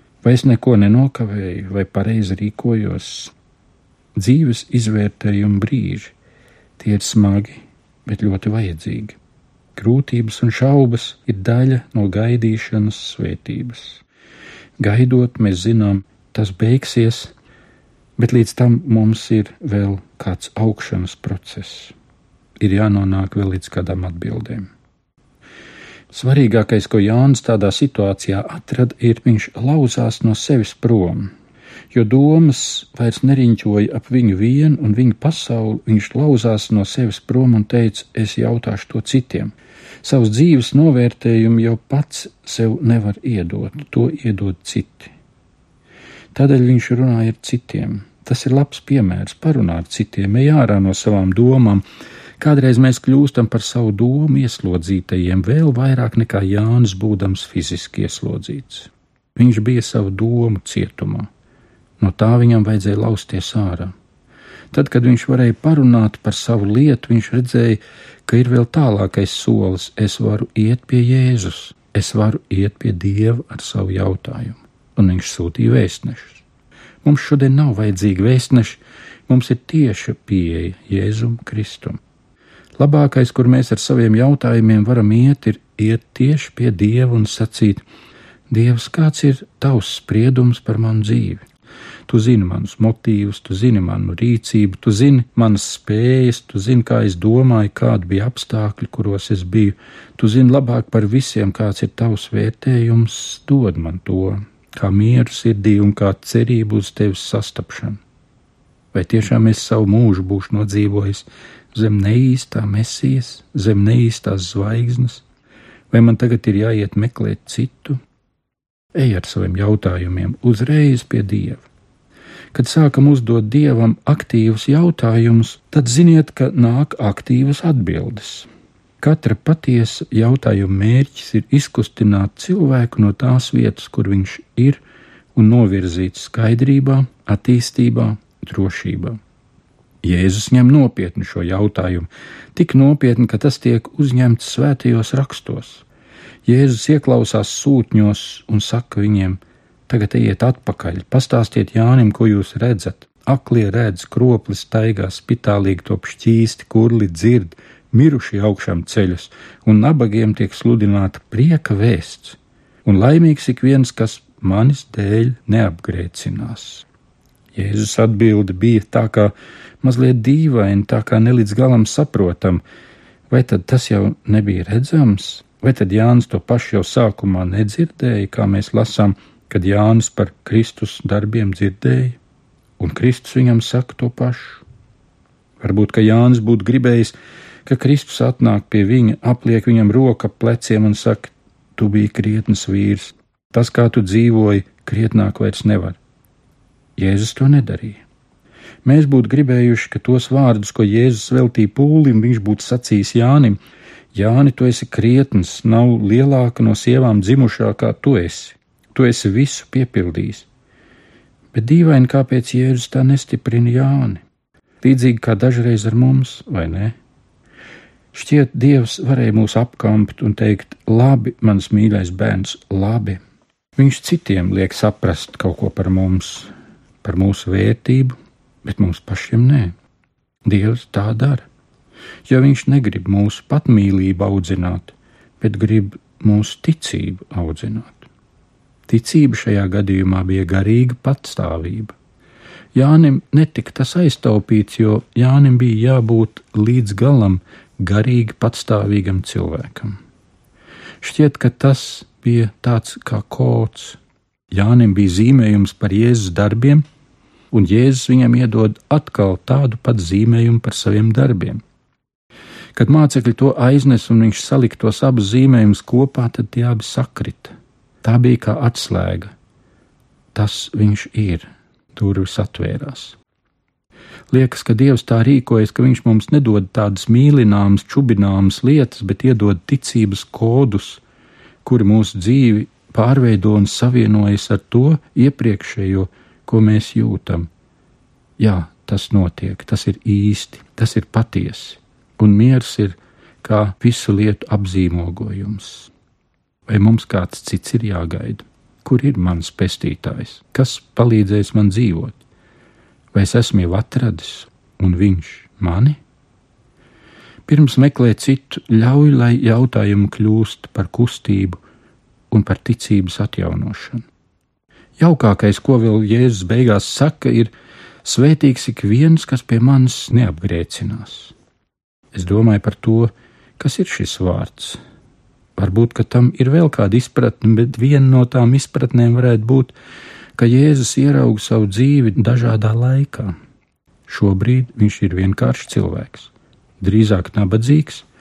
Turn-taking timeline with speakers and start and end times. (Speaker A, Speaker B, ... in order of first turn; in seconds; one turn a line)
Speaker A: 0.2-3.3
Speaker A: 4.1-6.1
Speaker A: 6.8-9.2
Speaker A: 9.8-14.0
Speaker A: 14.8-17.3
Speaker A: 18.2-21.9
Speaker A: 22.6-24.7
Speaker A: 26.1-31.3
Speaker A: 31.9-45.1
Speaker A: 46.3-51.8
Speaker A: 52.4-61.3
Speaker A: 62.0-63.9
Speaker A: 64.7-76.4
Speaker A: 77.0-82.0
Speaker A: 82.8-87.8
Speaker A: 88.5-91.5
Speaker A: 92.1-108.0
Speaker A: 108.9-115.2
Speaker A: 115.9-118.0
Speaker A: 118.9-121.7
Speaker A: 122.5-128.5
Speaker A: 129.0-134.8
Speaker A: 135.3-139.2
Speaker A: 140.0-145.8
Speaker A: 146.4-166.8
Speaker A: 167.5-172.6
Speaker A: 173.3-182.2
Speaker A: 182.8-184.6
Speaker A: 185.6-196.0
Speaker A: 197.0-198.0
Speaker A: 198.8-203.6
Speaker A: 204.1-210.5
Speaker A: 211.5-214.2
Speaker A: 214.8-216.9
Speaker A: 218.1-223.2
Speaker A: 223.8-226.5
Speaker A: 227.0-229.8
Speaker A: 230.4-231.4
Speaker A: 232.3-238.1
Speaker A: 238.9-241.9
Speaker A: 242.7-250.0
Speaker A: 251.0-254.0
Speaker A: 254.5-256.8
Speaker A: 257.5-261.6
Speaker A: 262.8-269.3
Speaker A: 270.3-273.2
Speaker A: 274.3-281.0
Speaker A: 281.6-287.5
Speaker A: 288.4-295.9
Speaker A: 296.7-302.2
Speaker A: 303.1-306.0
Speaker A: 307.5-311.6
Speaker A: 312.3-314.0
Speaker A: 315.0-317.5
Speaker A: 318.0-321.3
Speaker A: 322.1-324.8
Speaker A: 325.6-329.7
Speaker A: 330.4-333.4
Speaker A: 334.1-338.1